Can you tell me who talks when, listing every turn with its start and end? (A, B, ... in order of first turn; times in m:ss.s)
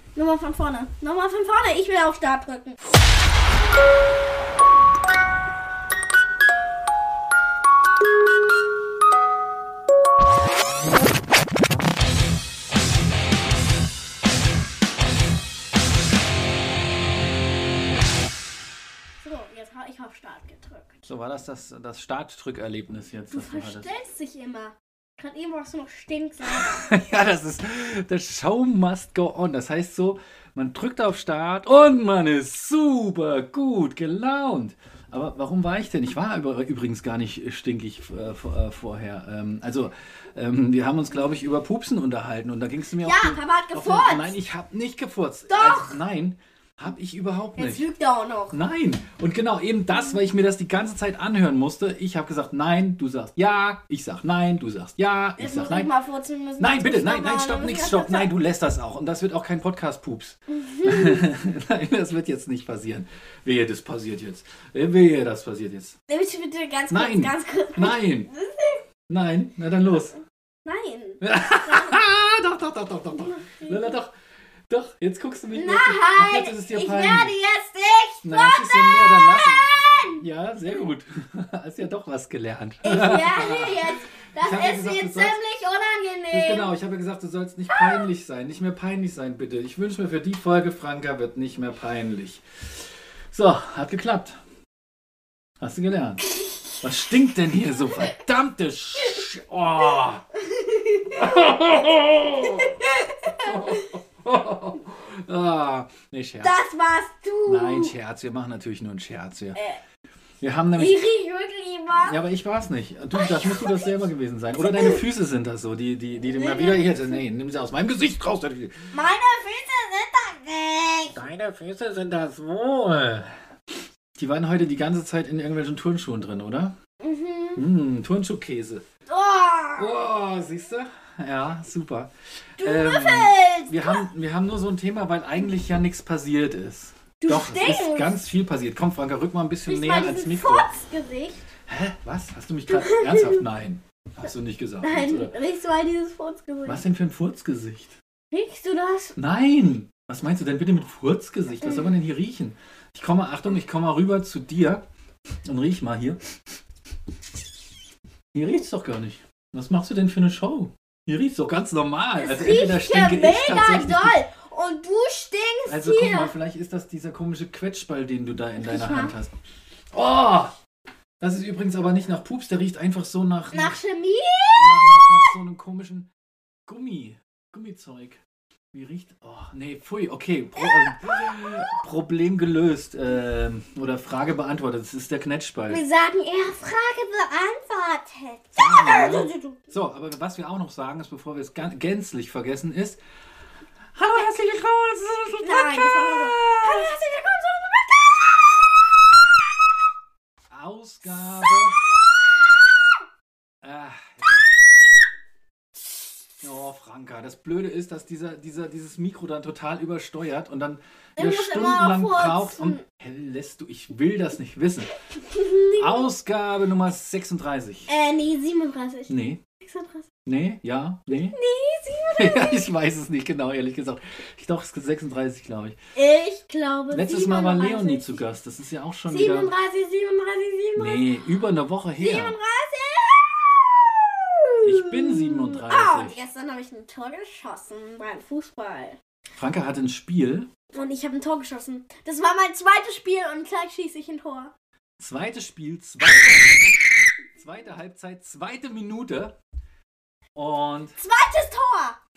0:00.2-0:02.8 A
0:19.2-0:21.1 A
0:21.1-0:23.9 B
0:23.3-0:26.8 A
0:26.5-0:47.8 B
0:43.0-0:44.4 A
0:45.5-0:46.0 A
0:47.6-0:48.6 A
0:48.5-0:55.9 B
0:55.4-0:58.3 A
0:56.6-1:06.0 B
1:00.5-1:01.2 A
1:06.1-1:08.8 A
1:06.9-1:08.3 B
1:09.1-1:10.2 B
1:10.6-1:12.0 A
1:11.2-1:14.1 B
1:13.1-1:14.0 A
1:14.7-1:17.3 B
1:15.5-1:20.2 A
1:18.2-1:25.4 B
1:22.8-1:26.7 A
1:26.3-1:32.4 B
1:27.8-1:28.1 A
1:33.3-1:34.4 B
1:35.6-1:36.3 B
1:36.8-1:40.2 B
1:40.4-1:41.5 A
1:41.2-1:42.8 B
1:42.4-1:43.9 A
1:43.4-1:46.6 B
1:46.4-1:47.9 A
1:47.5-1:49.6 B
1:49.6-1:49.8 A
1:50.4-1:51.0 B
1:50.8-1:52.2 A
1:52.0-1:58.9 B
1:53.1-1:54.0 A
1:56.3-1:57.1 A
1:58.9-2:01.2 A
2:01.1-2:03.3 B
2:04.2-2:06.8 B
2:07.0-2:07.6 A
2:07.6-2:08.8 B
2:09.1-2:09.9 A
2:09.8-2:20.7 B
2:12.6-2:14.1 A
2:17.2-2:18.1 A
2:19.7-2:21.4 A
2:21.7-2:25.3 B
2:22.7-2:23.4 A
2:24.8-2:26.8 A
2:26.7-2:28.0 B
2:28.3-2:29.2 A
2:29.2-2:34.8 B
2:31.6-2:31.9 A
2:35.4-2:36.2 B
2:38.3-2:44.2 B
2:42.2-2:46.3 A
2:45.7-2:49.4 B
2:48.6-2:49.1 A
2:49.9-2:50.5 B
2:51.2-2:53.8 B
2:53.5-2:55.2 A
2:54.5-2:56.1 B
2:56.7-3:05.8 B
3:00.6-3:01.5 A
3:05.7-3:09.6 A
3:08.6-3:13.0 B
3:14.0-3:17.0 B
3:15.4-3:18.4 A
3:20.5-3:21.8 B
3:23.6-3:24.4 B
3:26.4-3:34.9 B
3:31.2-3:32.8 A
3:35.3-3:36.1 A
3:35.8-3:37.9 B
3:37.9-3:40.1 A
3:39.1-3:39.4 B
3:40.2-3:41.4 B
3:41.1-3:42.7 A
3:42.2-3:45.8 B
3:46.0-3:48.2 A
3:46.9-3:49.5 B
3:49.1-3:51.1 A
3:50.8-3:52.4 B
3:52.0-3:59.0 A
3:54.6-3:56.2 B
3:59.4-4:00.5 B
4:00.7-4:04.5 A
4:05.0-4:06.8 B
4:07.4-4:09.4 B
4:10.4-4:11.0 B
4:11.0-4:12.0 A